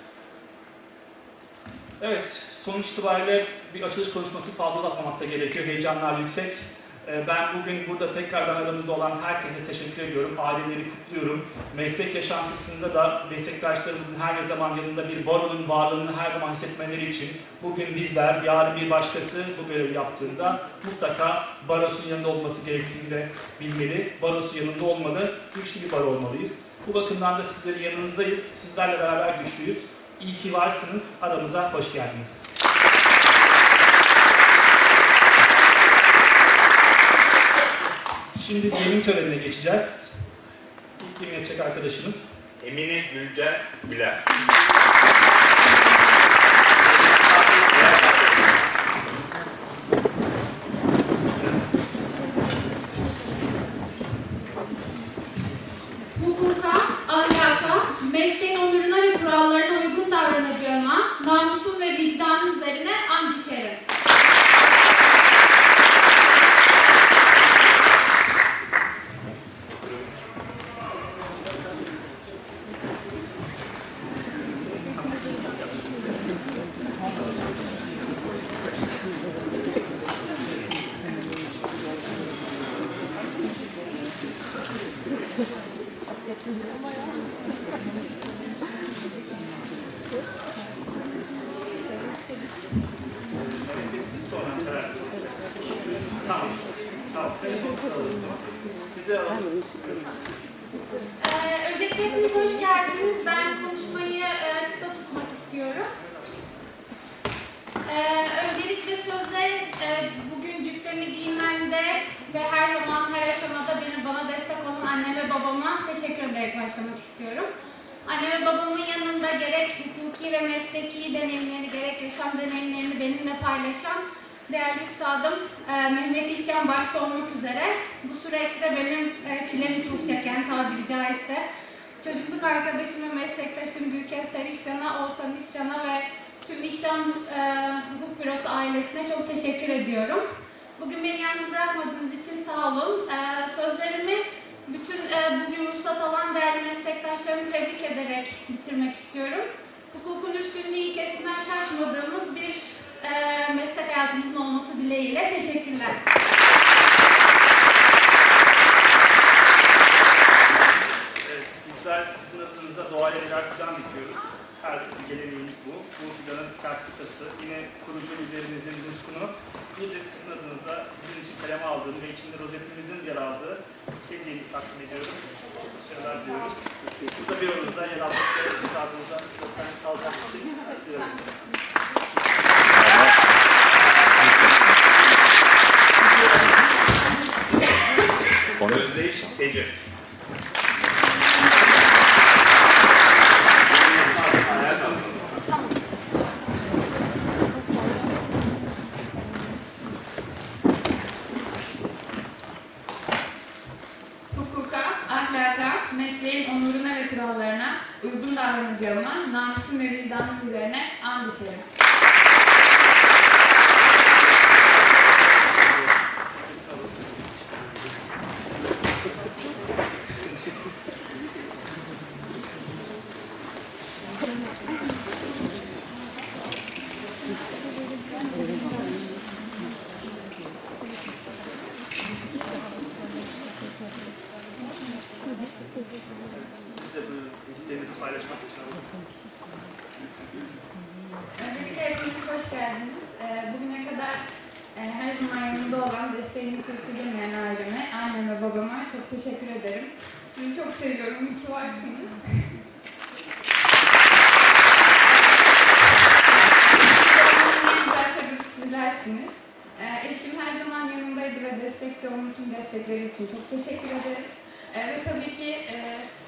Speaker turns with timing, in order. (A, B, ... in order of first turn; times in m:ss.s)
0:02.0-0:32.5 A
0:38.3-0:40.2 A
0:41.0-0:42.4 A
0:42.6-0:44.2 B
0:46.9-0:48.5 A
0:47.8-0:48.4 B
0:56.1-1:03.8 C
1:14.8-1:16.1 A
1:33.4-1:38.4 A
1:38.9-1:40.1 A
1:41.2-1:45.9 C
1:47.8-1:57.5 C
1:58.0-2:11.4 C
2:12.0-2:20.2 C
2:20.8-2:36.0 C
2:41.2-2:56.6 A
2:57.2-3:01.2 A
3:02.7-3:03.2 B
3:08.6-3:09.7 B
3:13.8-3:15.4 A
3:14.4-3:15.0 B
3:24.3-3:31.6 D
3:36.5-3:36.9 A
3:56.3-3:58.8 A
4:01.4-4:12.2 D
4:16.6-4:26.1 D